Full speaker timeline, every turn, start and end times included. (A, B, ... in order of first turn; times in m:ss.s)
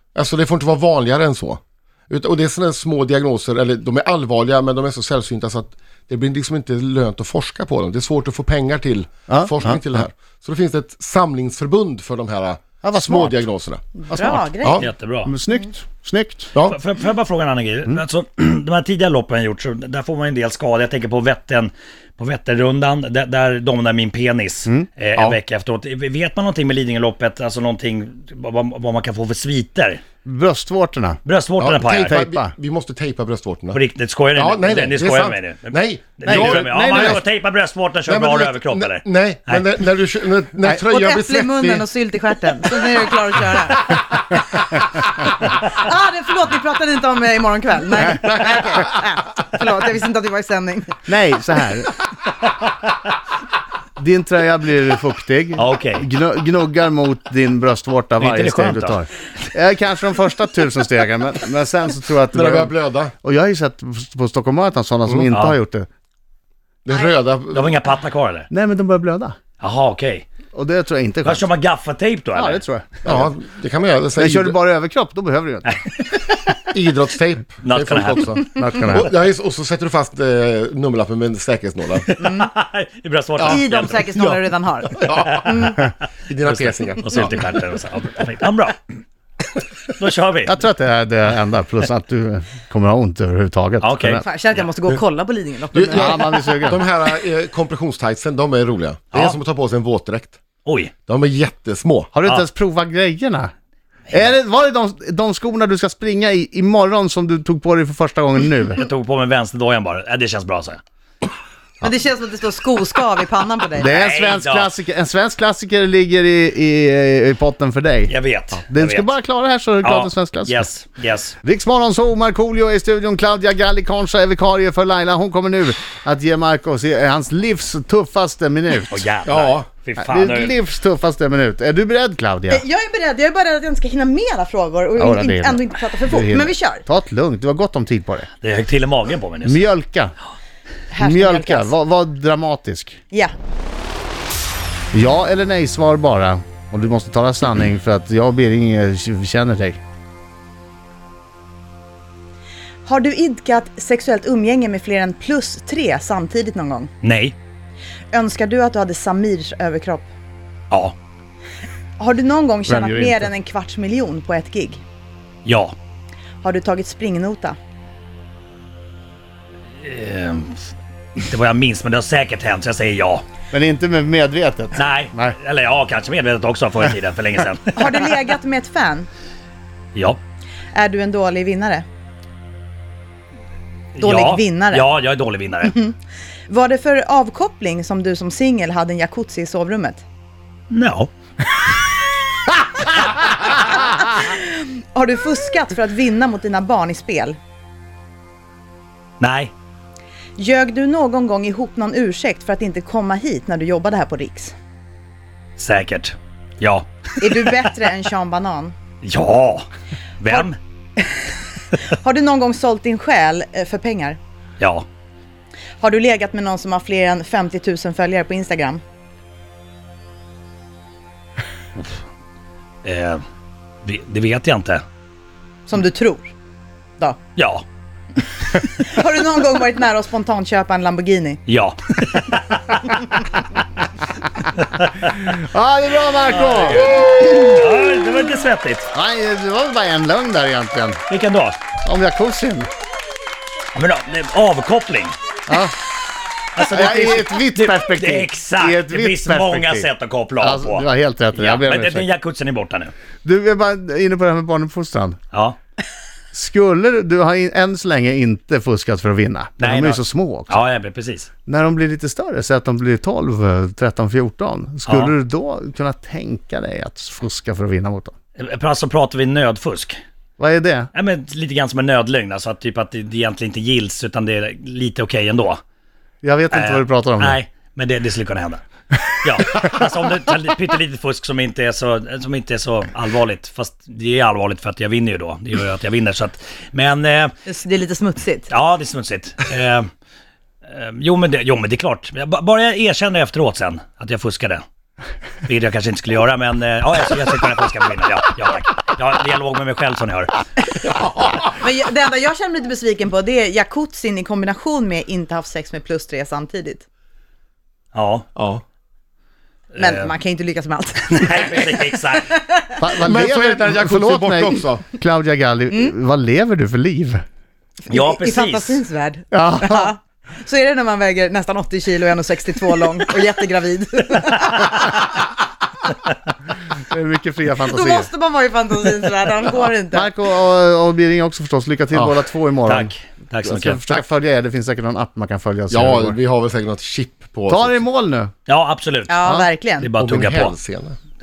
0:00.1-0:14.8 A
0:09.3-0:09.8 B
0:12.8-0:13.4 B
0:14.0-0:14.8 C
0:14.8-0:15.3 D
0:15.2-0:16.5 B
0:16.6-0:30.0 D
0:30.2-0:31.2 B
0:31.2-0:32.2 D
0:31.6-0:33.8 A
0:32.0-0:32.5 B
0:33.7-0:39.6 D
0:34.3-0:37.2 A
0:36.2-0:37.2 B
0:38.0-0:41.8 A
0:40.8-0:51.0 C
0:51.0-0:51.9 B
0:54.0-1:05.9 B
0:55.6-0:56.0 D
0:58.2-0:59.0 D
1:02.3-1:03.1 A
1:05.3-1:05.6 D
1:06.8-1:07.8 A
1:07.5-1:08.5 D
1:08.5-1:09.4 B
1:09.6-1:10.2 D
1:10.5-1:11.5 B
1:11.2-1:12.6 D
1:12.3-1:13.3 B
1:13.0-1:14.6 A
1:14.2-1:15.8 B
1:16.0-1:16.4 D
1:16.7-1:22.1 A
1:17.6-1:18.4 D
1:18.5-1:19.1 B
1:22.0-1:24.2 D
1:22.2-1:22.5 C
1:23.4-1:24.4 A
1:23.5-1:25.8 C
1:25.0-1:27.5 A
1:26.4-1:29.0 D
1:29.9-1:30.6 D
1:30.4-1:34.2 B
1:33.8-1:34.2 D
1:34.2-1:36.2 C
1:35.7-1:40.4 A
1:35.9-1:36.8 B
1:40.6-1:40.9 D
1:41.1-1:42.1 A
1:42.1-1:43.5 B
1:44.1-1:48.8 B
1:48.8-1:50.8 D
1:51.8-1:54.0 C
1:53.8-2:00.7 B
1:53.8-1:54.7 D
1:58.1-1:59.1 D
1:59.8-2:01.4 D
2:01.4-2:09.0 B
2:08.9-2:10.6 D
2:09.2-2:09.7 A
2:10.0-2:12.6 B
2:12.5-2:16.8 C
2:15.0-2:18.3 B
2:18.4-2:19.6 D
2:19.4-2:20.1 B
2:20.9-2:21.7 C
2:21.0-2:23.0 B
2:24.9-2:29.8 B
2:32.8-2:36.9 C
2:37.0-2:37.4 D
2:38.1-2:40.1 C
2:42.0-2:44.8 C
2:42.7-2:43.3 B
2:45.4-2:45.7 D
2:46.4-2:47.6 C
2:49.8-2:53.2 D
2:53.5-2:55.4 B
2:54.7-2:58.2 D
2:57.7-2:59.1 C
2:59.9-3:00.2 D
3:00.7-3:01.8 C
3:03.9-3:05.8 D
3:04.0-3:04.9 C
3:05.6-3:06.0 C
3:06.5-3:10.0 C
3:10.7-3:11.1 D
3:13.5-3:17.4 C
3:19.2-3:19.5 D
3:20.4-3:24.5 C
3:25.6-3:27.6 D
3:27.2-3:28.7 C
3:29.0-3:29.7 D
3:30.2-3:30.6 D
3:31.0-3:34.2 C
3:34.6-3:34.8 D
3:35.8-3:38.8 C
3:42.8-3:43.2 D
3:43.8-3:44.8 D
3:45.7-3:46.3 C
3:47.4-3:47.6 D
3:48.6-3:51.4 C
3:51.5-3:52.9 D
3:54.5-3:54.9 D
3:55.0-3:57.6 B
3:56.3-3:58.9 D
3:58.9-4:01.0 B
4:01.1-4:01.6 D
4:01.8-4:02.7 B
4:03.7-4:05.2 D
4:05.5-4:05.7 B
4:06.6-4:12.9 D
4:06.7-4:09.9 B
4:10.4-4:12.1 B
4:13.2-4:15.2 B
4:15.3-4:15.6 D
4:16.3-4:20.6 B
4:19.6-4:21.3 D
4:21.4-4:28.1 B
4:24.9-4:25.1 D
4:28.4-4:30.0 D
4:30.4-4:30.9 B
4:30.9-4:35.6 D
4:36.2-4:37.4 B
4:36.5-4:47.3 D
4:47.4-4:48.5 C
4:48.5-4:49.9 D
4:50.7-4:54.6 D
4:55.4-5:00.4 D
5:00.8-5:01.5 A
5:01.5-5:06.8 C
5:07.9-5:08.3 D
5:08.4-5:08.6 A
5:09.7-5:10.1 D
5:09.8-5:12.7 C
5:11.2-5:12.4 D
5:12.8-5:17.2 B
5:13.0-5:14.8 A
5:17.9-5:25.2 C
5:17.9-5:18.8 D
5:19.3-5:19.9 B
5:26.9-5:28.1 B
5:27.6-5:30.1 C
5:29.9-5:36.2 B
5:32.7-5:34.0 D
5:35.7-5:37.8 A
5:37.5-5:38.3 B
5:38.5-5:40.5 D
5:39.1-5:39.9 C
5:40.0-5:41.0 A